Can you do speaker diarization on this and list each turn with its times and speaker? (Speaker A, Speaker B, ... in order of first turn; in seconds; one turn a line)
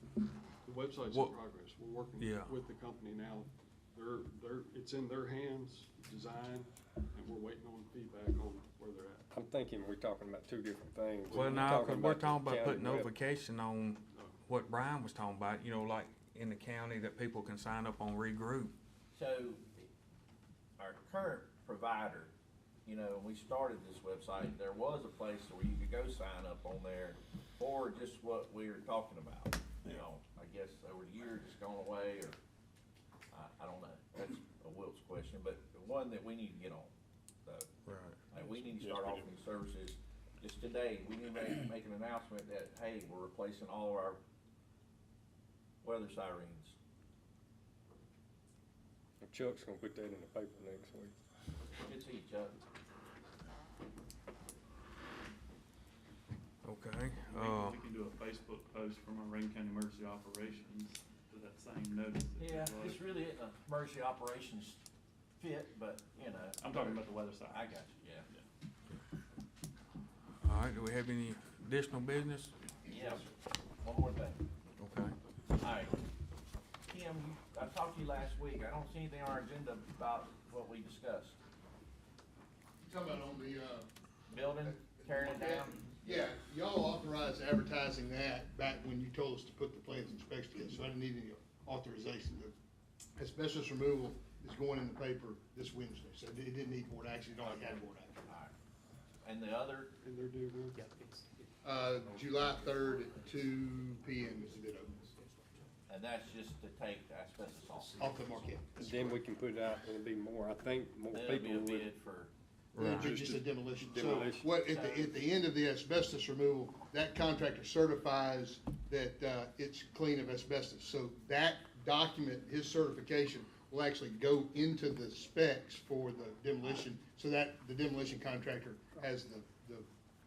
Speaker A: 0.6-9.3
Speaker B: 1.0-1.3
Speaker B: 2.2-2.5
Speaker C: 9.3-13.1
Speaker A: 11.3-11.9
Speaker B: 11.3-18.7
Speaker A: 14.1-14.4
Speaker D: 19.1-19.9
Speaker D: 20.8-22.3
Speaker D: 22.8-32.4
Speaker D: 33.3-36.9
Speaker B: 37.9-38.2
Speaker D: 38.3-44.2
Speaker D: 45.8-46.8
Speaker C: 49.2-51.1
Speaker D: 51.8-52.5
Speaker B: 56.6-57.8
Speaker E: 57.2-63.0
Speaker D: 62.4-64.8
Speaker D: 65.4-68.3
Speaker E: 66.6-67.8
Speaker B: 70.4-72.5
Speaker D: 72.9-73.3
Speaker D: 73.8-74.4
Speaker B: 74.8-75.1
Speaker D: 75.6-76.0
Speaker D: 76.9-81.4
Speaker F: 82.8-83.9
Speaker D: 84.3-86.3
Speaker F: 84.6-92.5
Speaker F: 93.2-98.2
Speaker D: 97.5-98.5
Speaker D: 99.2-99.9
Speaker A: 100.0-100.9
Speaker F: 101.6-104.9
Speaker D: 105.9-108.1
Speaker F: 108.0-109.1
Speaker C: 108.8-111.9
Speaker D: 111.1-112.3
Speaker B: 112.7-113.1
Speaker C: 112.8-114.5
Speaker F: 112.8-129.8
Speaker D: 114.0-115.2
Speaker D: 126.6-126.9